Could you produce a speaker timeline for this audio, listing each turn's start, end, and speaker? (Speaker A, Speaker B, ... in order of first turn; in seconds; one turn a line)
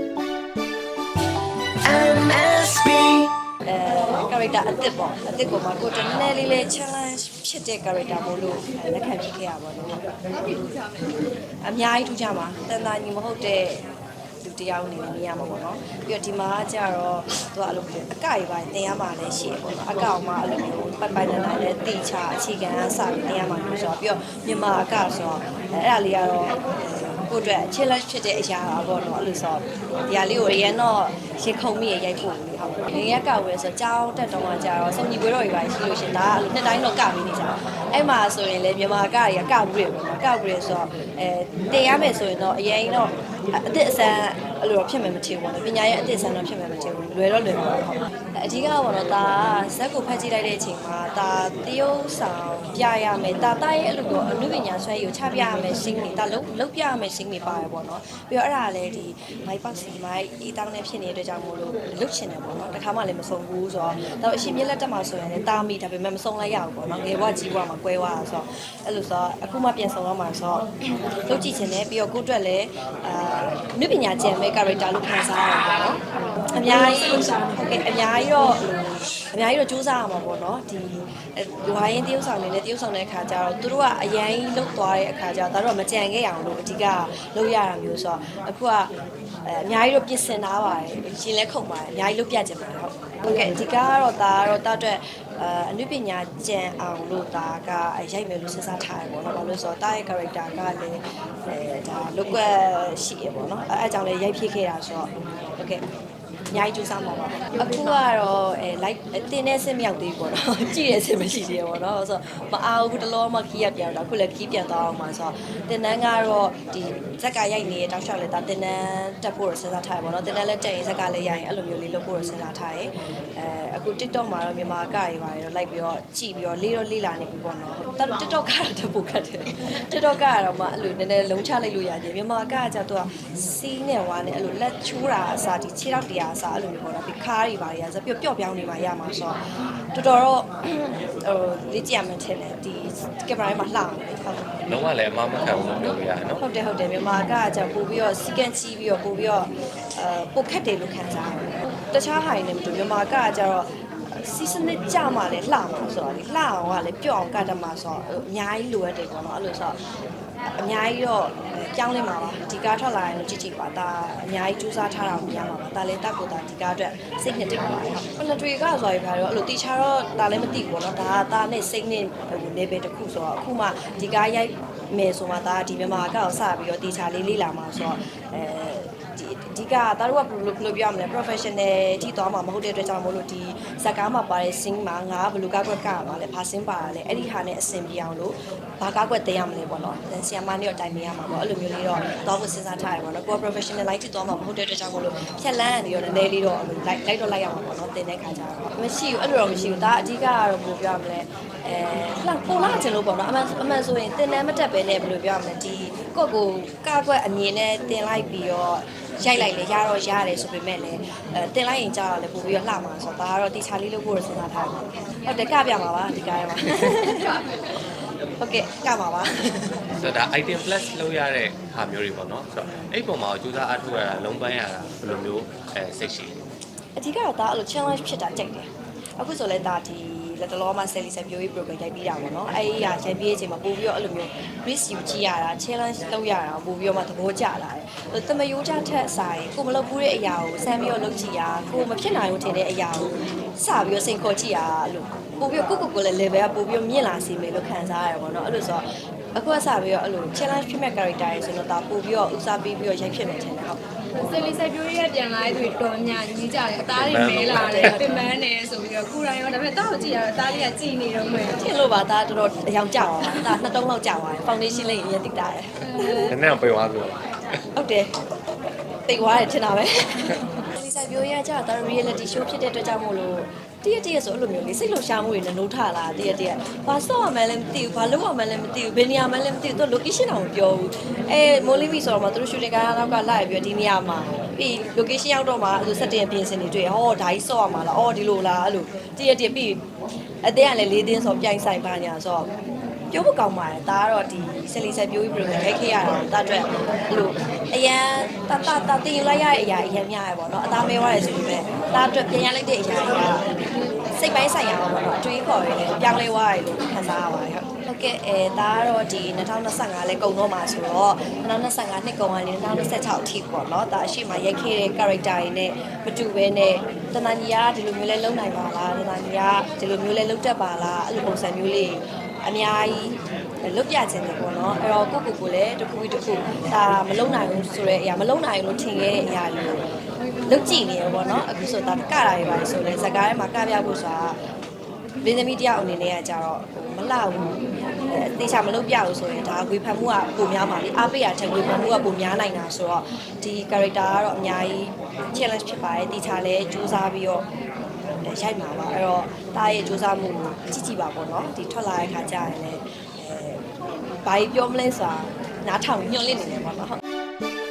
Speaker A: 1.9-10.0
Speaker B: 10.5-10.9
Speaker A: 11.6-13.8
Speaker A: 14.4-70.7
Speaker A: 71.2-76.0
Speaker A: 76.5-88.9
Speaker A: 89.4-105.8
Speaker A: 106.5-139.4
Speaker A: 139.9-144.7
Speaker C: 144.7-146.4
Speaker A: 146.4-159.8
Speaker A: 160.5-217.7
Speaker A: 218.4-219.8
Speaker C: 220.0-226.3
Speaker A: 226.9-253.8
Speaker B: 254.1-261.6
Speaker C: 256.8-258.0
Speaker A: 261.6-266.3
Speaker B: 265.9-266.4
Speaker C: 266.3-267.3
Speaker A: 267.7-268.1
Speaker A: 269.1-289.8
Speaker A: 290.4-292.5
Speaker A: 293.1-303.4
Speaker A: 304.1-329.8
Speaker A: 330.4-334.4
Speaker A: 335.2-347.4
Speaker A: 348.2-353.6
Speaker A: 354.2-357.0